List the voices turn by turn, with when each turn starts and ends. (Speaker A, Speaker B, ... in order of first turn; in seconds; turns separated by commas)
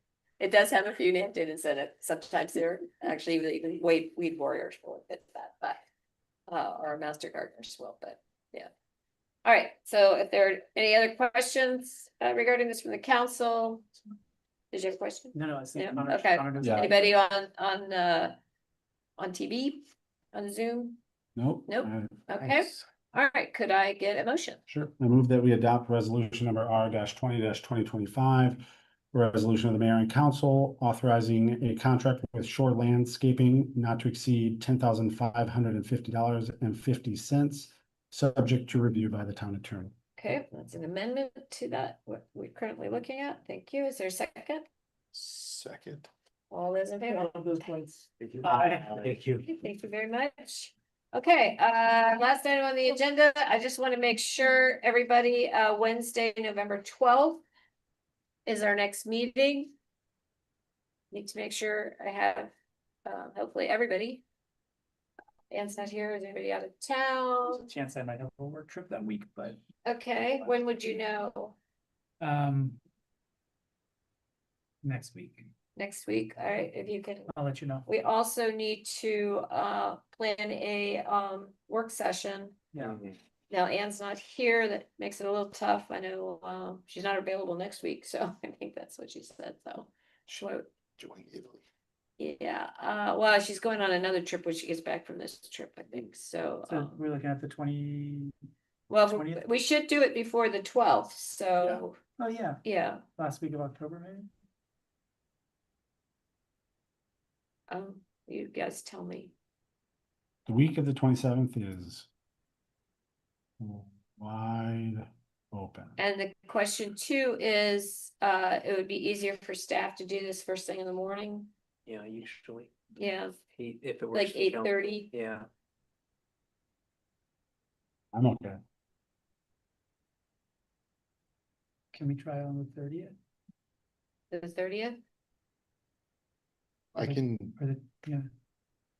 Speaker A: 0.4-5.8, Speaker A: 6.5-8.7, Speaker A: 9.4-13.9, Speaker A: 14.7-18.3, Speaker B: 15.3-17.0, Speaker C: 16.6-16.9, Speaker A: 19.2-21.0, Speaker C: 21.4-22.3, Speaker A: 21.7-24.6, Speaker C: 24.7-39.9, Speaker A: 40.2-44.7, Speaker D: 45.1-46.1, Speaker A: 46.5-47.7, Speaker B: 47.0-49.4, Speaker D: 48.3-49.1, Speaker A: 49.4-57.4, Speaker A: 58.5-59.7, Speaker A: 61.1-62.5, Speaker A: 63.1-64.2, Speaker A: 65.5-67.7, Speaker B: 67.5-69.6, Speaker A: 69.8-71.5, Speaker B: 72.2-72.8, Speaker B: 74.8-75.5, Speaker A: 75.8-77.3, Speaker B: 77.3-77.9, Speaker A: 77.8-82.6, Speaker B: 82.7-83.0, Speaker A: 83.5-90.7, Speaker D: 91.0-91.7, Speaker A: 92.2-96.9, Speaker B: 96.7-98.3, Speaker A: 98.9-102.0, Speaker B: 99.0-99.4, Speaker B: 101.6-102.6, Speaker A: 102.6-103.0, Speaker B: 103.2-104.3, Speaker A: 107.7-109.3, Speaker C: 110.5-112.1, Speaker C: 113.6-116.0, Speaker A: 116.0-121.5, Speaker E: 121.8-122.7, Speaker A: 123.0-123.4, Speaker E: 123.5-125.5, Speaker A: 124.1-125.1, Speaker C: 128.1-128.6, Speaker B: 131.9-133.2, Speaker A: 134.3-135.0, Speaker D: 136.9-137.5, Speaker B: 137.0-138.3